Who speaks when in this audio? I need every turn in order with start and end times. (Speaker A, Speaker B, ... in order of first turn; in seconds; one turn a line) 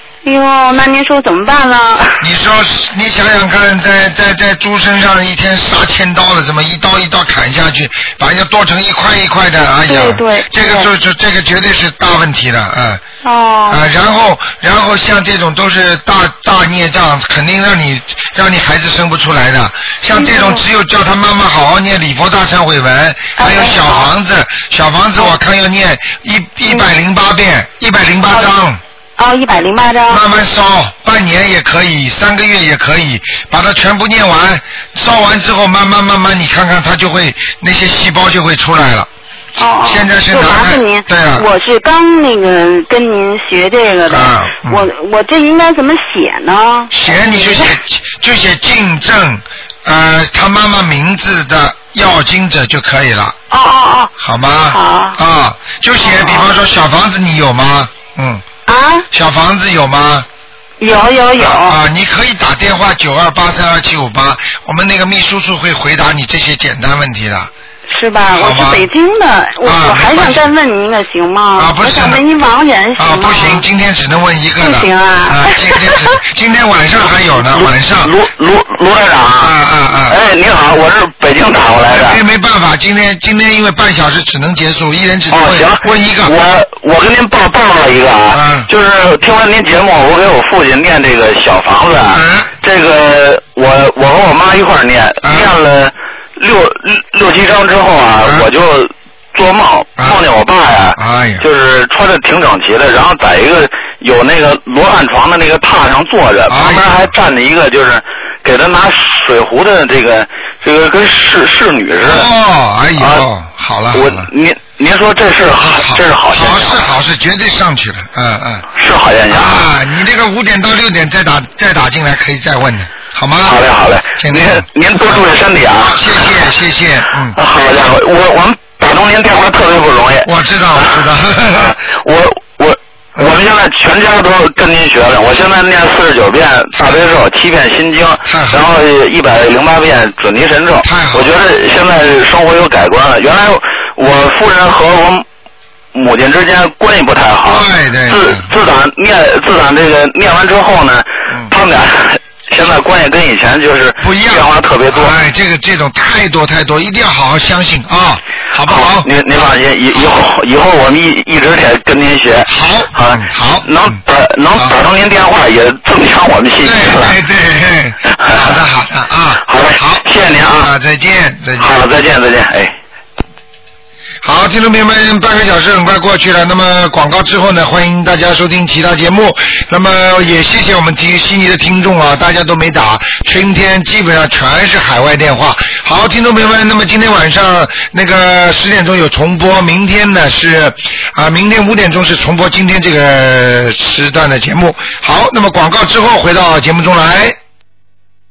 Speaker A: 0.2-2.2
Speaker B: 2.2-13.0
Speaker A: 9.9-10.9
Speaker A: 13.2-13.8
Speaker B: 13.7-28.8
Speaker A: 20.1-20.6
Speaker A: 23.4-24.1
Speaker A: 29.2-30.2
Speaker B: 30.1-39.1
Speaker A: 39.5-47.7
Speaker B: 39.8-41.5
Speaker B: 44.1-44.9
Speaker B: 46.9-53.4
Speaker A: 53.5-54.1
Speaker B: 54.2-58.4
Speaker A: 54.7-55.2
Speaker A: 56.0-56.5
Speaker A: 58.6-59.1
Speaker B: 59.1-60.3
Speaker A: 60.8-61.8
Speaker B: 61.4-67.5
Speaker A: 67.9-73.7
Speaker B: 68.3-68.9
Speaker B: 69.6-70.5
Speaker B: 71.5-72.2
Speaker B: 73.0-78.1
Speaker A: 74.6-76.2
Speaker C: 77.3-79.5
Speaker B: 79.4-80.2
Speaker C: 80.1-82.2
Speaker B: 81.9-86.3
Speaker C: 85.3-112.3
Speaker B: 88.3-88.7
Speaker B: 92.1-92.5
Speaker B: 95.2-95.5
Speaker B: 100.0-100.2
Speaker B: 100.9-101.5
Speaker B: 106.5-107.1
Speaker B: 112.0-114.3
Speaker C: 113.0-113.2
Speaker C: 113.9-116.9
Speaker B: 115.6-118.7
Speaker C: 118.7-119.7
Speaker B: 119.3-123.6
Speaker C: 123.4-126.5
Speaker B: 124.2-127.4
Speaker C: 127.3-145.2
Speaker B: 130.2-131.7
Speaker B: 138.2-138.7
Speaker B: 140.8-141.3
Speaker C: 145.9-155.2
Speaker B: 147.4-148.5
Speaker B: 154.0-159.1
Speaker C: 158.6-167.2
Speaker B: 162.4-164.0
Speaker B: 166.6-171.8
Speaker C: 168.1-168.6
Speaker C: 169.4-170.7
Speaker C: 171.6-172.7
Speaker B: 174.2-197.3